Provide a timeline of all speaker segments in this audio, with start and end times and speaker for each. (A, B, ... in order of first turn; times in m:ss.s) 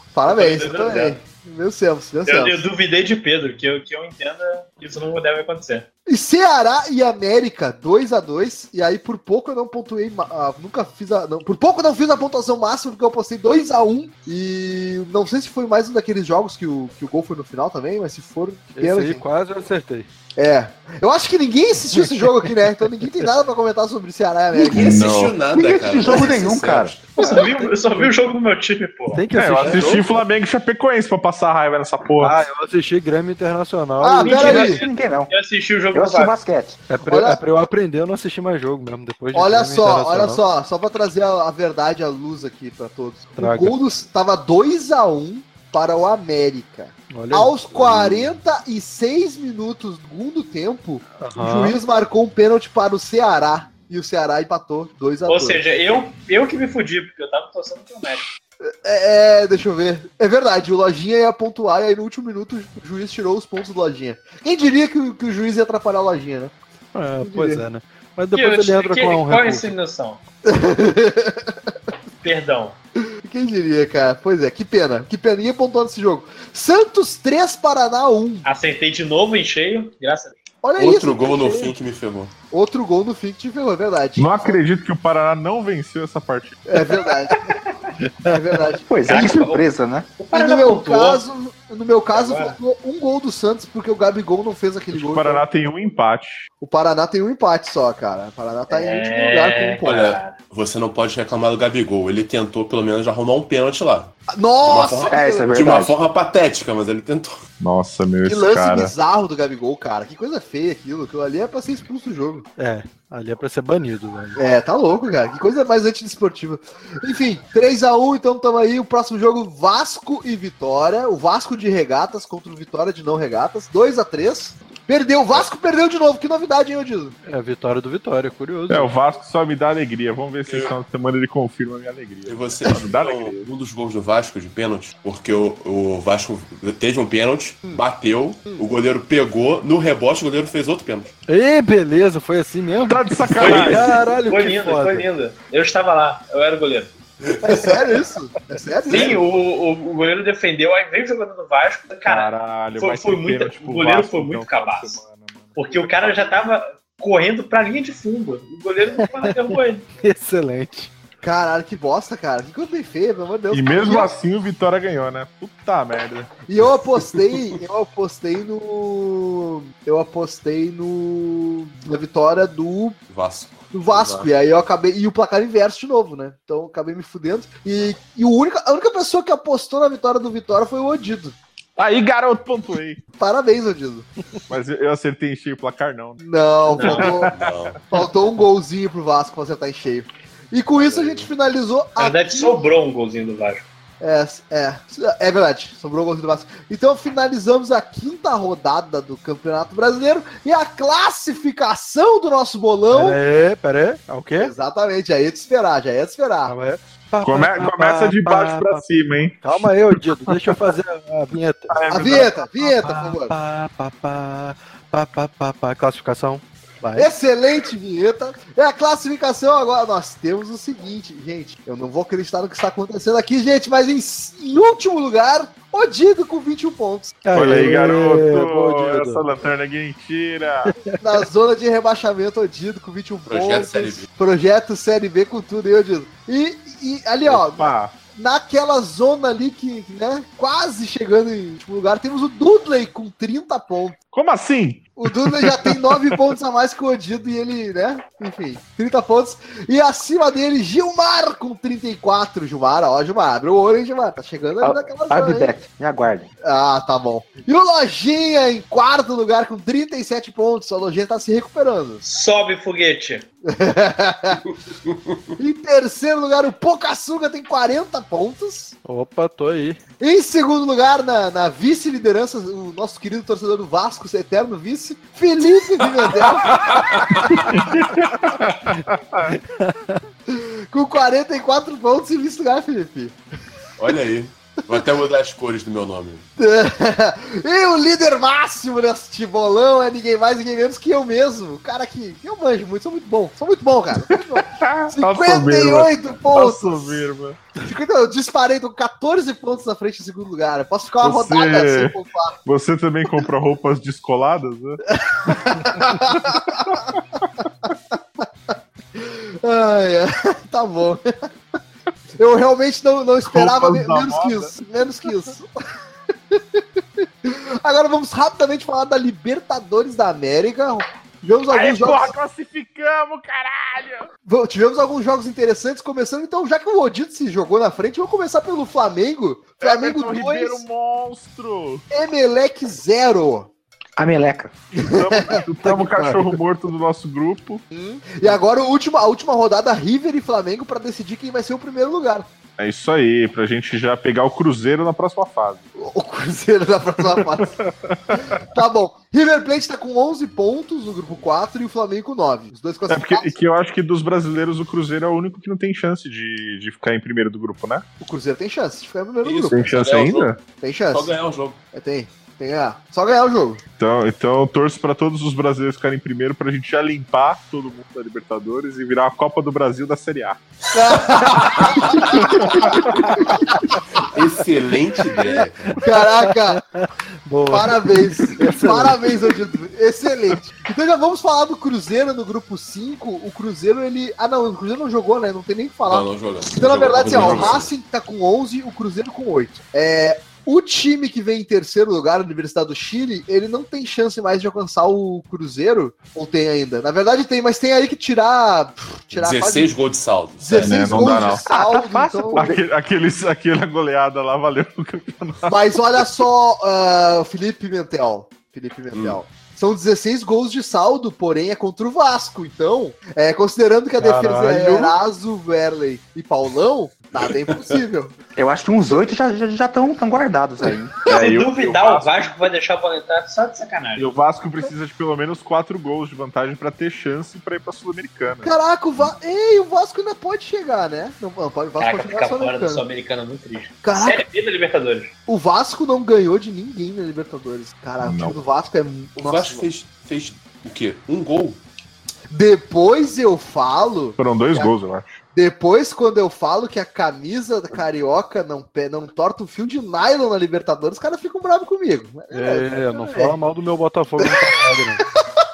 0:00.1-0:02.6 A
0:00.3-0:01.2 B
0:02.2-0:05.8 B
0:06.1-0:19.2 A
0:18.8-0:20.1 C
0:20.4-0:24.8 A
0:24.5-0:27.0 D
0:24.7-0:27.1 E
0:24.7-0:25.4 F
0:27.2-0:28.1 C
0:27.2-0:29.2 B
0:29.1-0:30.1 C
0:29.3-0:32.4 F
0:32.2-0:34.7 C
0:34.0-0:34.8 A
0:34.2-0:36.4 B
0:34.3-0:35.3 D
0:35.9-0:36.8 D
0:36.9-0:40.4 C
0:37.1-0:37.4 A
0:39.3-0:55.6 A
0:43.4-0:43.7 C
0:47.1-0:47.6 C
0:47.7-0:48.3 E
0:51.2-0:51.8 C
0:55.2-0:58.3 B
0:58.6-1:06.5 A
1:06.9-1:09.7 C
1:07.2-1:07.6 A
1:08.3-1:10.2 B
1:10.4-1:11.5 A
1:12.2-1:12.8 B
1:13.2-1:18.4 A
1:18.4-1:20.4 B
1:20.6-1:21.7 A
1:20.8-1:22.3 E
1:22.5-1:24.6 A
1:24.2-1:26.6 F
1:26.7-1:27.6 A
1:28.2-1:28.8 A
1:28.8-1:30.1 D
1:29.1-1:29.6 B
1:30.2-1:31.2 B
1:30.3-1:35.4 A
1:32.1-1:32.6 B
1:34.9-1:36.5 F
1:36.6-1:39.9 A
1:38.7-1:40.3 B
1:39.8-1:47.4 E
1:44.3-1:45.6 A
1:45.1-1:46.0 D
1:47.6-1:48.9 F
1:48.2-1:52.4 A
1:52.6-1:54.4 C
1:54.4-2:07.1 A
2:07.2-2:08.9 C
2:08.7-2:13.4 F
2:10.4-2:10.8 E
2:12.2-2:21.1 E
2:21.3-2:25.1 C
2:22.8-2:24.0 F
2:23.4-2:26.9 B
2:27.4-2:29.2 A
2:27.5-2:27.8 B
2:28.9-2:35.0 B
2:28.9-2:29.2 E
2:32.0-2:36.3 F
2:35.6-2:39.8 B
2:39.0-2:40.9 C
2:41.2-2:44.1 A
2:43.5-2:46.3 F
2:46.4-2:53.0 A
2:53.1-2:54.3 E
2:53.7-3:01.3 A
3:01.8-3:03.0 F
3:03.2-3:04.1 A
3:04.5-3:06.2 F
3:06.2-3:07.3 A
3:06.7-3:07.9 E
3:06.7-3:07.1 B
3:06.8-3:07.6 F
3:07.9-3:12.6 A
3:10.8-3:11.3 E
3:12.0-3:13.6 B
3:14.0-3:23.2 A
3:22.9-3:24.5 C
3:24.4-3:26.5 A
3:26.4-3:28.8 C
3:27.2-3:30.6 F
3:29.4-3:31.8 C
3:31.7-3:32.4 F
3:31.9-3:33.3 A
3:32.6-3:37.1 C
3:37.0-3:47.2 A
3:47.2-3:49.3 C
3:47.3-3:50.7 F
3:50.7-3:51.0 C
3:51.0-4:04.0 A
3:53.3-3:54.1 E
3:57.2-3:58.0 F
4:04.1-4:06.2 F
4:05.0-4:15.5 A
4:14.6-4:16.3 D
4:16.4-4:22.0 A
4:22.0-4:23.2 B
4:23.4-4:24.4 A
4:24.8-4:25.2 E
4:25.4-4:28.7 A
4:28.8-4:29.8 C
4:30.0-4:36.8 A
4:36.5-4:37.6 E
4:37.5-4:39.4 F
4:39.2-4:40.0 C
4:40.3-4:43.1 A
4:43.8-4:46.2 E
4:46.4-4:57.0 A
4:54.4-4:57.4 F
4:57.6-5:02.4 A
5:01.0-5:04.8 F
5:04.9-5:06.9 A
5:06.6-5:07.2 F
5:08.2-5:11.1 A
5:12.2-5:15.5 A
5:13.2-5:14.5 F
5:16.3-5:22.1 A
5:21.5-5:24.1 F
5:24.2-5:30.6 A
5:29.6-5:31.8 F
5:31.9-5:33.5 A
5:34.0-5:34.5 D
5:34.8-5:37.6 F
5:34.8-5:35.4 A
5:35.6-5:36.4 C
5:37.7-5:42.3 A
5:42.6-5:45.7 F
5:45.8-5:47.5 A
5:47.0-5:48.4 F
5:48.3-5:53.4 A
5:52.9-5:57.8 F
5:58.0-5:59.7 A
5:59.2-6:00.4 E
5:59.5-6:00.4 F
6:00.6-6:01.1 A
6:00.9-6:01.6 E
6:01.7-6:03.6 A
6:03.8-6:10.4 F
6:10.7-6:13.8 A
6:12.0-6:13.3 F
6:14.0-6:15.8 E
6:15.2-6:19.3 C
6:15.8-6:16.6 A
6:17.5-6:39.7 A
6:25.8-6:27.7 E
6:39.1-6:41.1 E
6:40.4-6:42.5 A
6:40.5-6:41.5 F
6:41.2-6:42.6 D
6:42.4-6:45.6 F
6:45.5-6:58.2 A
6:48.9-6:49.2 E
6:54.0-6:54.9 C
6:58.4-7:00.9 D
7:01.1-7:02.4 F
7:01.1-7:04.1 B
7:04.0-7:08.5 F
7:08.4-7:12.8 A
7:11.8-7:15.1 B
7:13.8-7:14.2 A
7:15.2-7:19.7 A
7:18.0-7:18.4 F
7:19.2-7:21.6 E
7:22.3-7:24.7 A
7:24.2-7:25.1 F
7:25.3-7:33.4 A
7:32.3-7:35.0 C